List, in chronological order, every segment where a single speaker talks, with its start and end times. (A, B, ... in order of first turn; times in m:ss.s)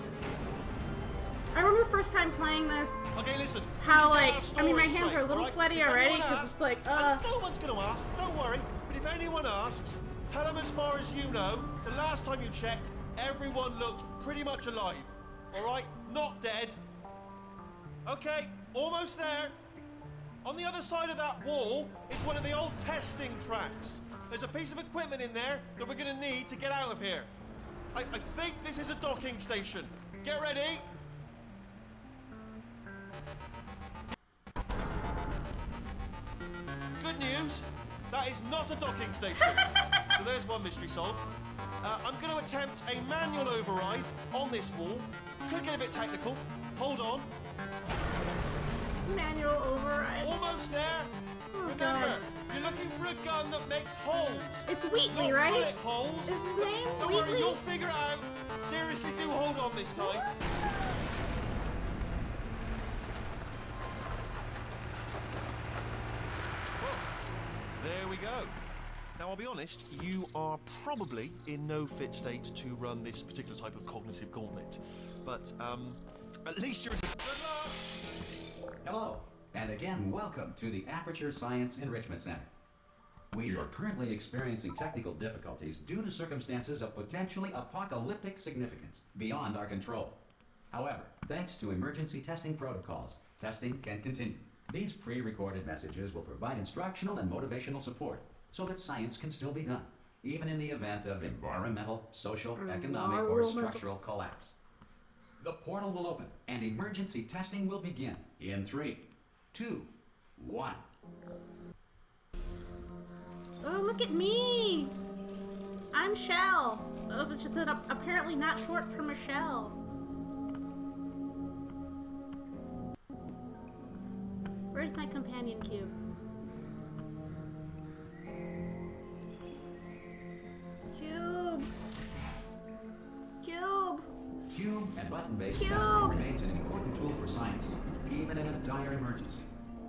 0:01.5-0:03.1 A
0:03.2-0:16.8 B
0:03.8-0:07.3 A
0:18.1-0:19.6 B
0:20.4-0:27.3 B
0:27.9-0:30.9 B
0:37.0-0:41.2 B
0:39.6-0:40.1 A
0:41.8-0:47.3 B
0:49.0-0:50.3 A
0:50.2-0:51.1 B
0:51.5-0:52.2 A
0:51.6-1:00.3 B
0:54.7-0:55.7 A
0:56.3-0:57.6 A
1:06.8-1:07.1 B
1:07.8-1:08.6 B
1:09.2-1:17.9 B
1:18.8-1:22.5 C
1:23.3-1:30.2 C
1:30.7-1:44.6 C
1:42.6-1:43.8 A
1:45.4-1:50.8 C
1:53.6-1:55.0 A
1:55.9-1:59.8 A
2:04.7-2:06.0 A
2:10.9-2:11.7 A
2:13.4-2:14.1 A
2:14.5-2:19.5 C
2:15.6-2:16.2 A